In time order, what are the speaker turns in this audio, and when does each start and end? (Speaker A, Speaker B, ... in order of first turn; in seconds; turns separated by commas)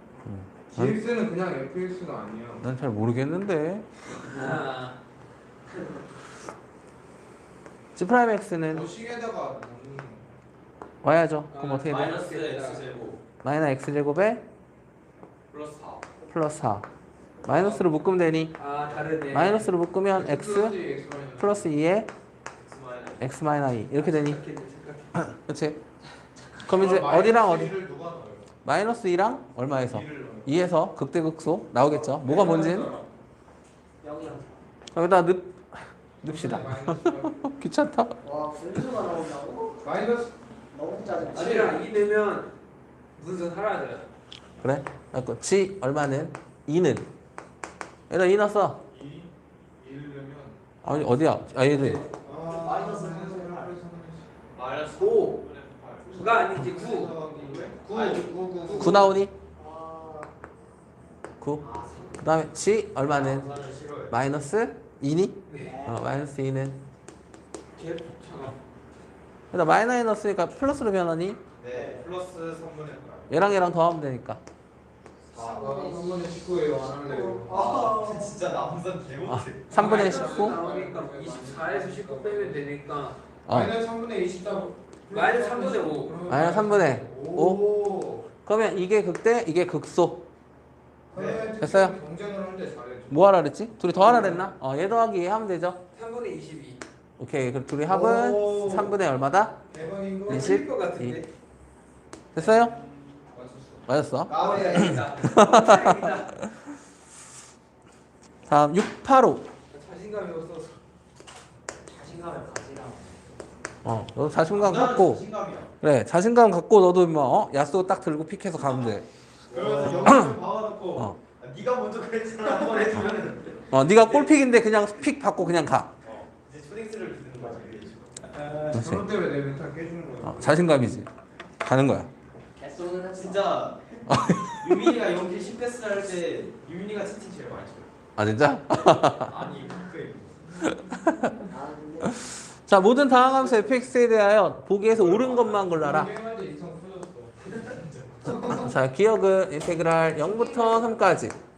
Speaker A: 0.2-1.0, Speaker B: 0.7-2.6, Speaker A: 2.6-3.9, Speaker C: 4.2-5.0, Speaker A: 8.0-8.9, Speaker B: 8.7-10.3, Speaker A: 11.0-12.1, Speaker C: 11.5-12.8, Speaker D: 11.8-13.2, Speaker A: 13.4-14.4, Speaker D: 15.5-16.1, Speaker A: 16.3-16.9, Speaker A: 17.4-18.6, Speaker B: 17.5-17.9, Speaker C: 18.6-19.7, Speaker A: 19.3-20.8, Speaker B: 20.1-21.7, Speaker A: 21.4-22.1, Speaker D: 22.6-23.3, Speaker A: 23.2-24.4, Speaker D: 24.2-25.3, Speaker A: 25.2-25.8, Speaker A: 26.7-27.8, Speaker B: 26.7-28.5, Speaker A: 28.6-32.9, Speaker B: 29.8-30.5, Speaker B: 31.9-33.1, Speaker E: 34.0-34.6, Speaker A: 34.9-38.1, Speaker B: 36.2-37.5, Speaker E: 38.2-39.8, Speaker B: 39.8-40.3, Speaker E: 40.7-41.8, Speaker C: 41.3-42.5, Speaker C: 43.2-44.1, Speaker A: 44.6-47.1, Speaker A: 48.1-48.8, Speaker B: 48.9-50.6, Speaker A: 50.8-52.0, Speaker E: 51.7-53.8, Speaker B: 52.2-54.3, Speaker D: 54.5-59.0, Speaker B: 55.0-55.4, Speaker C: 56.1-57.4, Speaker B: 56.5-59.2, Speaker A: 58.8-59.3, Speaker E: 59.6-60.3, Speaker E: 61.6-62.5, Speaker A: 62.2-63.5, Speaker D: 63.1-64.2, Speaker A: 64.1-66.8, Speaker C: 65.5-65.8, Speaker E: 65.6-66.1, Speaker C: 67.8-68.5, Speaker A: 69.5-71.4, Speaker D: 71.6-73.4, Speaker E: 71.7-72.1, Speaker A: 73.3-74.4, Speaker E: 75.3-76.2, Speaker B: 75.4-78.4, Speaker E: 77.1-77.9, Speaker D: 77.2-79.9, Speaker A: 79.3-80.6, Speaker B: 79.7-82.6, Speaker C: 79.7-83.2, Speaker A: 83.5-83.8, Speaker B: 83.5-88.3, Speaker C: 85.1-86.3, Speaker A: 86.3-87.6, Speaker A: 88.4-90.2, Speaker B: 91.1-93.3, Speaker D: 91.2-91.6, Speaker A: 91.6-92.0, Speaker A: 93.1-95.8, Speaker B: 94.0-94.5, Speaker C: 95.9-96.8, Speaker A: 97.2-99.6, Speaker B: 97.9-98.9, Speaker B: 99.7-100.7, Speaker A: 100.3-101.2, Speaker C: 100.3-101.3, Speaker A: 102.3-102.7, Speaker B: 102.3-105.5, Speaker A: 103.9-106.6, Speaker D: 104.3-105.3, Speaker E: 104.4-105.4, Speaker C: 104.5-106.3, Speaker A: 108.5-109.5, Speaker C: 109.7-110.8, Speaker B: 109.7-110.4, Speaker E: 111.9-113.2, Speaker A: 113.8-115.2, Speaker D: 114.4-115.7, Speaker A: 115.8-119.0, Speaker B: 119.5-120.4, Speaker D: 119.5-124.3, Speaker A: 120.1-120.3, Speaker A: 123.7-125.9, Speaker D: 126.0-128.8, Speaker B: 128.3-130.9, Speaker A: 128.7-129.1, Speaker A: 130.2-131.1, Speaker A: 131.6-132.1, Speaker E: 132.6-133.6, Speaker D: 133.1-137.9, Speaker A: 134.1-134.9, Speaker A: 138.2-139.3, Speaker D: 138.9-140.4, Speaker A: 140.7-141.3, Speaker E: 141.5-142.2, Speaker A: 142.1-146.1, Speaker B: 145.0-148.8, Speaker A: 148.5-151.4, Speaker E: 150.2-151.3